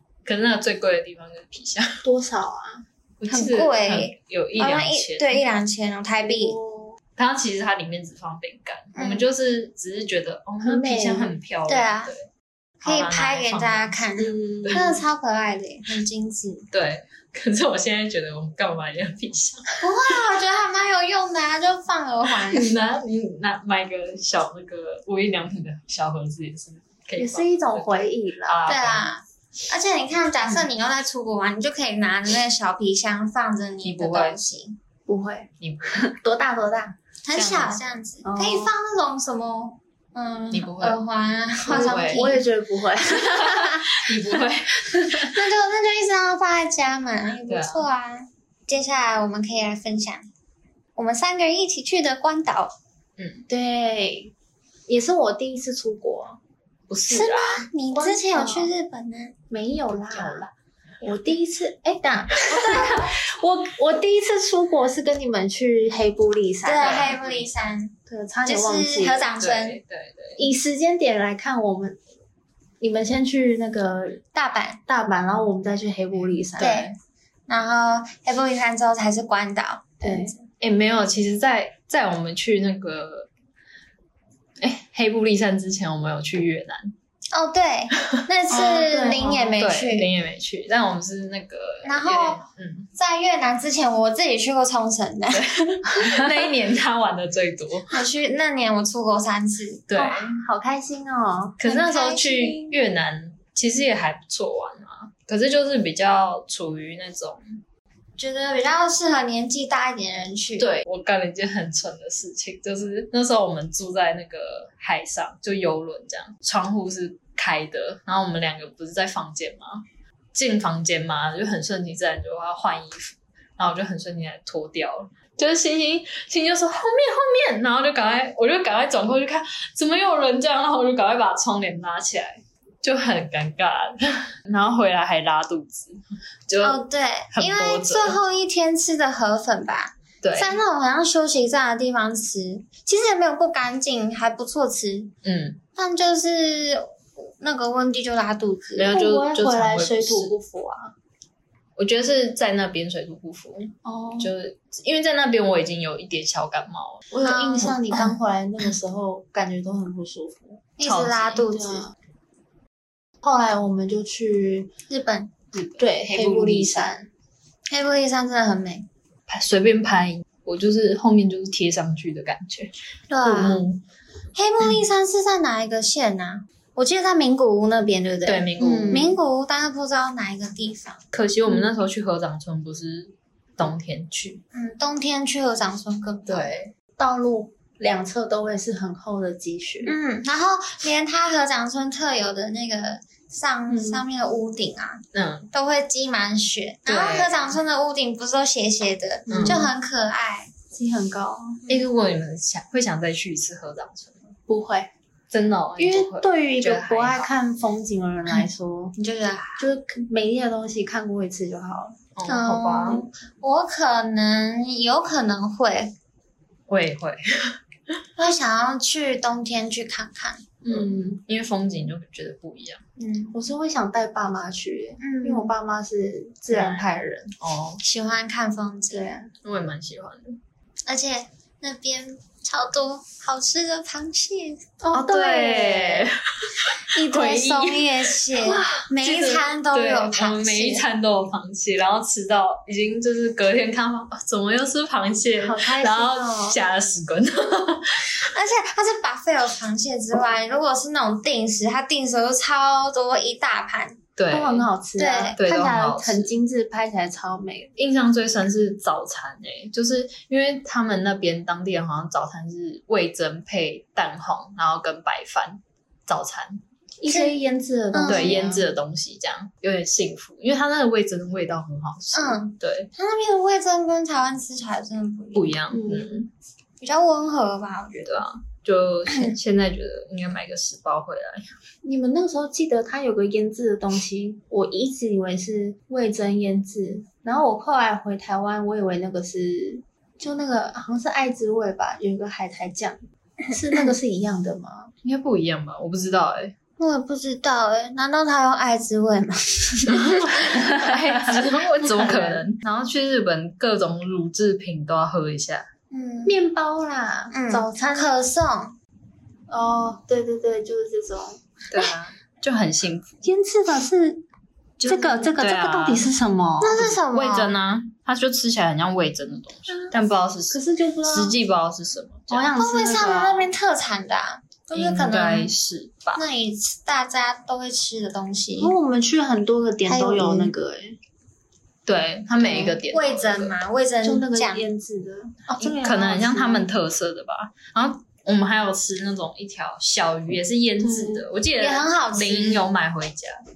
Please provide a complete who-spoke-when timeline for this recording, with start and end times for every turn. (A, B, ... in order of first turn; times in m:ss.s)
0:00.2-0:02.0 A
0:02.0-0:02.8 B
0:03.2-0:05.4 A
0:03.3-0:06.6 C
0:06.2-0:07.0 B
0:07.2-0:12.3 A
0:08.9-0:09.3 C
0:10.6-0:11.4 B
0:11.7-0:12.1 C
0:12.8-0:14.0 A
0:12.8-0:16.6 C
0:14.2-0:14.9 B
0:14.6-0:15.0 A
0:16.7-0:19.8 A
0:19.8-0:22.7 C
0:22.5-0:29.1 A
0:27.2-0:28.6 B
0:28.6-0:34.8 C
0:33.8-0:34.4 A
0:35.1-0:37.0 B
0:35.6-0:36.0 A
0:37.2-0:42.4 C
0:37.3-0:37.8 A
0:38.2-0:38.7 B
0:40.5-0:41.0 A
0:41.6-0:42.4 A
0:41.7-0:45.3 B
0:43.0-0:45.3 A
0:45.3-0:50.3 C
0:47.5-0:47.8 A
0:51.0-0:52.7 C
0:53.2-0:53.4 A
0:53.5-0:54.3 B
0:54.9-0:56.4 B
0:56.9-0:57.6 A
0:57.1-0:59.3 C
0:57.9-0:58.7 B
0:59.5-1:00.5 B
1:00.1-1:00.4 A
1:01.0-1:07.2 B
1:02.5-1:02.9 A
1:02.6-1:02.9 C
1:06.6-1:09.8 C
1:06.8-1:07.4 A
1:08.1-1:09.3 B
1:09.4-1:10.5 A
1:10.4-1:12.0 B
1:12.8-1:14.2 B
1:14.3-1:14.8 C
1:14.9-1:16.7 B
1:16.6-1:16.9 A
1:16.6-1:16.9 C
1:17.5-1:20.4 C
1:20.0-1:20.3 B
1:20.6-1:23.3 A
1:24.6-1:26.9 A
1:27.3-1:30.1 C
1:28.5-1:29.6 B
1:29.6-1:32.9 A
1:31.8-1:32.4 C
1:33.0-1:35.5 C
1:35.3-1:37.9 A
1:37.9-1:40.0 C
1:39.9-1:40.4 A
1:40.0-1:41.6 B
1:41.6-1:47.6 A
1:41.6-1:42.7 C
1:48.2-1:50.7 C
1:50.6-2:18.2 A
2:16.6-2:25.1 C
2:20.2-2:20.6 A
2:25.2-2:25.6 A
2:25.8-2:28.9 C
2:28.8-2:30.3 A
2:28.9-2:30.9 B
2:31.8-2:37.1 A
2:33.8-2:34.3 B
2:37.1-2:40.6 B
2:37.2-2:37.9 C
2:40.8-2:41.9 C
2:40.8-2:41.4 A
2:41.5-2:41.9 B
2:43.2-2:44.7 B
2:44.9-2:45.3 C
2:45.5-2:46.9 A
2:45.8-2:47.1 B
2:47.7-2:48.9 C
2:49.3-2:52.7 A
2:53.1-2:53.6 C
2:53.2-2:53.8 A
2:54.3-3:01.0 C
2:58.2-2:59.1 A
2:58.6-2:58.9 B
3:01.1-3:04.4 A
3:04.5-3:06.5 C
3:06.2-3:06.7 A
3:07.0-3:09.9 B
3:09.8-3:20.5 C
3:13.7-3:14.0 B
3:15.1-3:15.5 A
3:16.8-3:17.6 A
3:19.3-3:19.7 B
3:19.3-3:19.7 A
3:20.7-3:21.6 B
3:21.7-3:24.3 A
3:24.5-3:24.9 B
3:25.3-3:27.3 A
3:25.8-3:28.9 B
3:29.0-3:29.7 C
3:29.6-3:32.0 B
3:32.2-3:33.0 A
3:32.2-3:35.9 C
3:36.7-3:37.6 A
3:38.2-3:40.5 C
3:40.6-3:41.2 B
3:40.7-3:42.8 A
3:43.0-3:43.4 C
3:43.3-3:47.3 B
3:45.0-3:45.5 C
3:46.5-3:46.9 A
3:47.4-3:47.8 A
3:47.8-3:49.2 C
3:48.9-3:49.3 B
3:49.4-3:50.4 A
3:50.8-3:54.6 C
3:54.8-3:56.1 B
3:54.9-4:08.3 A
3:56.9-4:00.8 C
3:58.4-3:59.2 B
4:05.4-4:06.2 B
4:05.9-4:06.6 C
4:08.2-4:14.0 C
4:14.2-4:14.7 A
4:14.3-4:17.7 B
4:15.0-4:15.4 C
4:15.4-4:16.3 A
4:17.8-4:26.6 A
4:27.0-4:28.7 B
4:27.1-4:27.3 C
4:27.9-4:28.3 C
4:28.1-4:32.9 A
4:32.1-4:35.5 C
4:35.3-4:36.3 A
4:35.7-4:36.2 B
4:36.8-4:38.2 C
4:38.0-4:41.5 A
4:41.8-4:54.9 B
4:53.5-4:53.9 C
4:55.0-4:56.5 A
4:56.8-5:00.7 C
5:00.3-5:05.7 A
5:00.6-5:02.4 B
5:05.9-5:06.4 C
5:06.2-5:08.2 B
5:07.3-5:08.8 C
5:09.5-5:11.4 B
5:11.7-5:13.2 A
5:13.2-5:14.2 B
5:14.8-5:16.1 A
5:14.8-5:16.8 B
5:16.6-5:17.5 C
5:16.8-5:22.5 A
5:20.5-5:21.3 B
5:22.3-5:23.5 B
5:22.6-5:25.5 C
5:24.7-5:26.2 A
5:26.2-5:28.7 C
5:28.6-5:31.0 B
5:29.8-5:30.5 C
5:31.8-5:33.5 A
5:32.4-5:34.6 C
5:34.0-5:36.7 B
5:35.6-5:43.4 A
5:40.8-5:41.2 B
5:41.6-5:42.6 C